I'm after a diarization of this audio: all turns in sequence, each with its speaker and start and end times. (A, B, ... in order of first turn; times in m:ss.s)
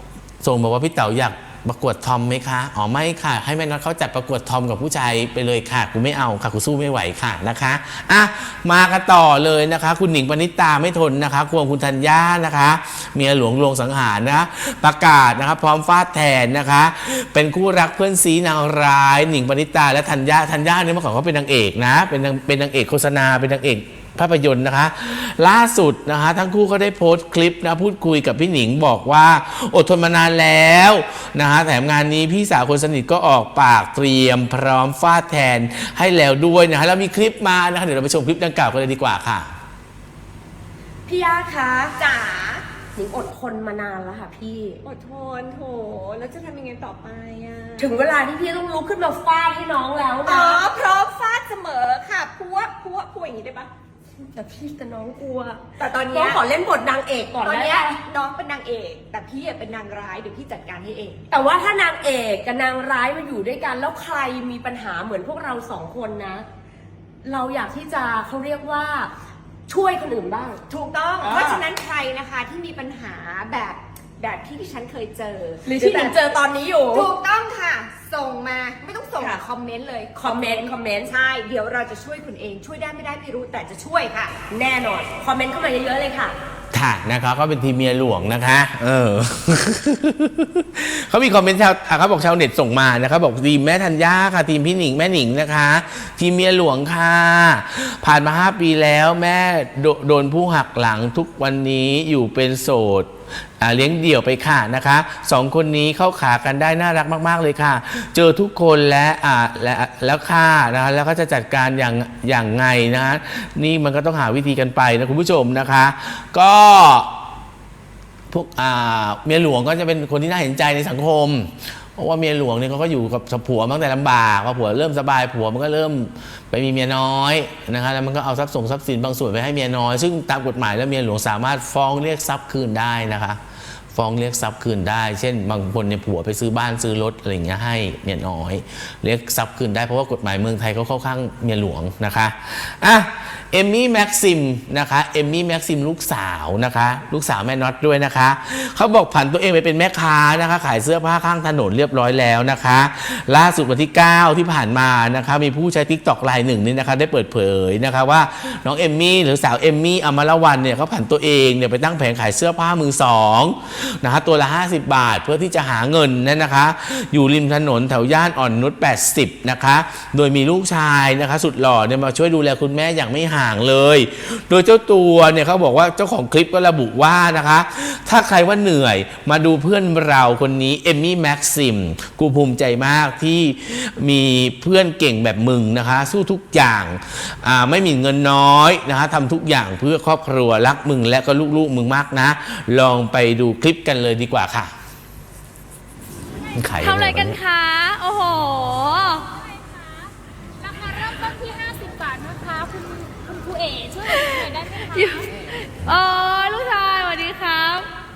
0:00.4-0:39.5 A
0:41.1-0:42.0 B
0:42.0-0:42.6 C
0:43.0-0:44.8 B
0:44.8-0:47.9 C
0:47.8-0:50.6 B
0:50.3-0:53.7 C
0:54.3-0:58.0 B
0:55.8-0:56.4 C
0:57.4-1:01.2 C
1:01.3-1:06.5 B
1:07.2-1:09.1 B
1:09.7-1:10.6 B
1:10.7-1:24.4 C
1:11.2-1:11.6 B
1:15.6-1:17.1 B
1:20.2-1:21.1 B
1:24.5-1:26.4 B
1:26.7-1:57.1 A
1:58.3-2:13.4 A
2:13.9-3:14.7 A
3:16.6-3:17.4 A
3:16.8-3:19.3 D
3:19.3-3:25.3 E
3:24.1-3:27.9 D